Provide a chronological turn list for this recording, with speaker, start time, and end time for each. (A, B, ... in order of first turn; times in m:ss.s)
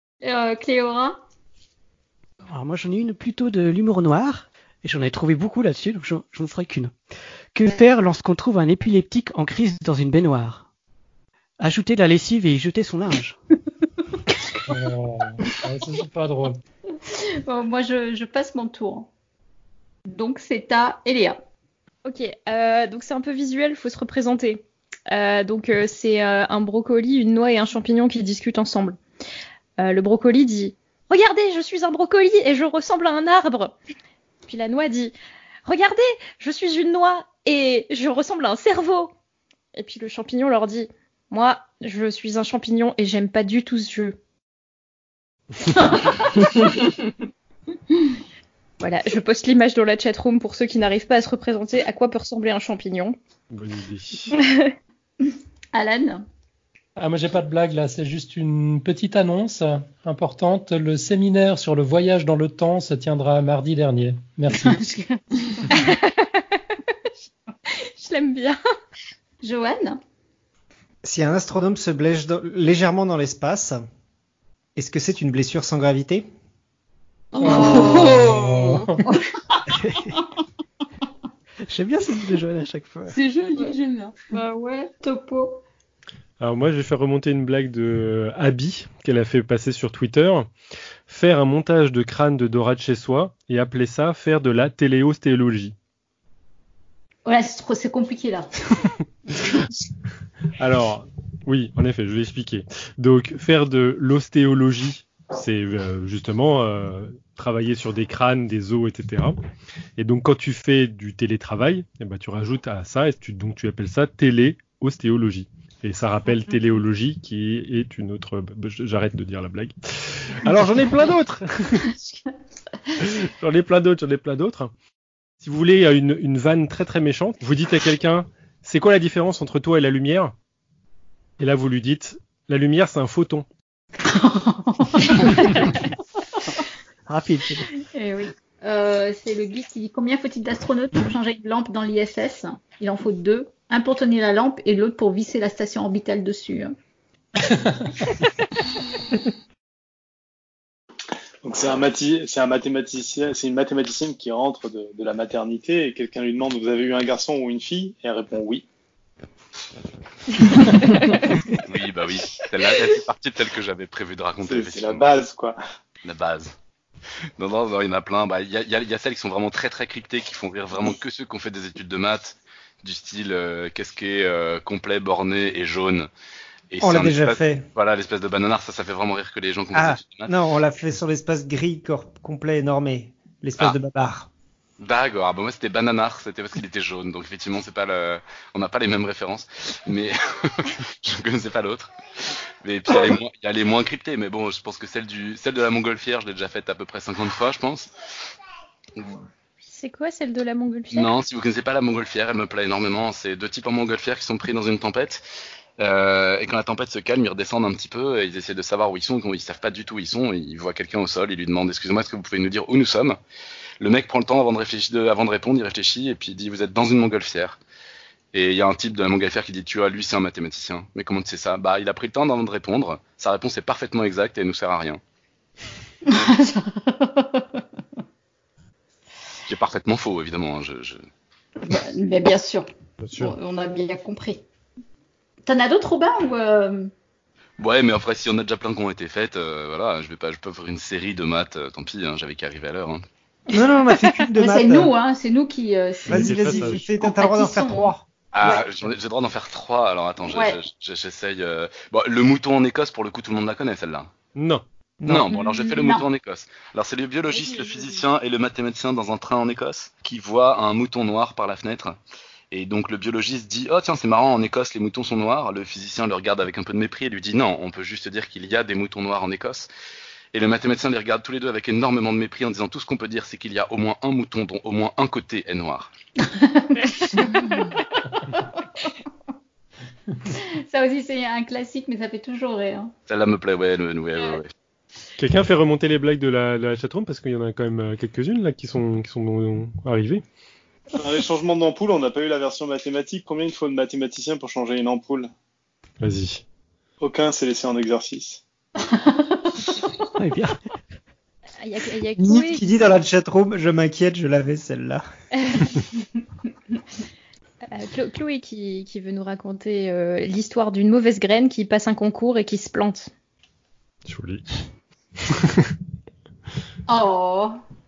0:00.2-0:01.2 A
0:02.5-0:06.9 B
0:07.5-0:10.7 B
0:11.6-0:13.4 B
0:14.7-0:16.6 C
0:17.0-0:19.1 A
0:20.1-0:21.4 A
0:22.0-0:29.0 D
0:29.8-0:33.7 D
0:34.5-0:35.1 D
0:35.6-0:39.1 D
0:39.8-0:44.2 D
0:48.8-0:53.2 D
0:53.5-0:54.3 E
0:54.3-0:54.7 D
0:55.2-0:56.2 A
0:57.0-1:04.8 C
1:04.5-1:06.0 A
1:05.8-1:06.2 D
1:07.8-1:08.6 D
1:09.4-1:10.0 A
1:11.0-1:13.8 F
1:14.8-1:16.2 F
1:17.3-1:18.9 G
1:17.4-1:18.3 A
1:17.4-1:19.0 C
1:19.0-1:20.2 A
1:19.8-1:20.2 B
1:21.7-1:23.1 B
1:23.1-1:24.2 G
1:24.3-1:25.6 A
1:26.4-1:30.5 E
1:31.1-1:35.7 E
1:37.2-1:38.5 A
1:40.6-1:49.4 E
1:50.0-2:01.8 E
2:03.0-2:04.7 E
2:05.4-2:10.3 E
2:11.4-2:13.4 E
2:14.0-2:15.7 A
2:17.1-2:17.7 B
2:17.9-2:26.7 A
2:31.4-2:38.6 H
2:40.9-2:41.1 D
2:41.6-2:45.1 I
2:44.4-2:45.6 H
2:46.0-2:46.5 I
2:47.4-2:56.1 I
2:56.7-3:00.3 I
2:56.8-2:57.7 F
2:59.7-3:04.3 F
3:04.8-3:11.9 I
3:12.6-3:17.9 I
3:19.7-3:21.1 D
3:20.9-3:25.2 I
3:25.8-3:33.2 I
3:33.8-3:37.6 I
3:38.3-3:45.0 I
3:46.1-3:47.6 A
3:49.5-3:51.0 I
3:51.6-3:54.4 A
3:53.0-3:53.4 E
3:55.4-3:56.9 A
3:57.6-4:03.0 I
4:03.5-4:04.9 F
4:04.0-4:08.6 A
4:06.1-4:06.8 E
4:06.1-4:08.0 F
4:08.3-4:14.1 I
4:10.2-4:10.6 A
4:14.3-4:14.6 E
4:15.0-4:15.3 F
4:15.0-4:22.0 I
4:15.3-4:16.0 A
4:22.5-4:29.7 I
4:30.3-4:35.9 I
4:36.2-4:37.8 A
4:38.4-4:39.0 A
4:40.2-4:42.9 A
4:43.1-4:44.5 I
4:45.2-4:50.2 E
4:51.0-4:55.3 H
4:56.0-4:56.4 E
4:57.0-4:58.4 H
4:58.8-4:59.6 A
5:00.2-5:00.6 B
5:01.6-5:02.6 D
5:02.2-5:05.0 F
5:05.4-5:05.7 D
5:07.7-5:13.1 D
5:14.0-5:14.4 E
5:15.2-5:15.7 E
5:16.9-5:17.5 A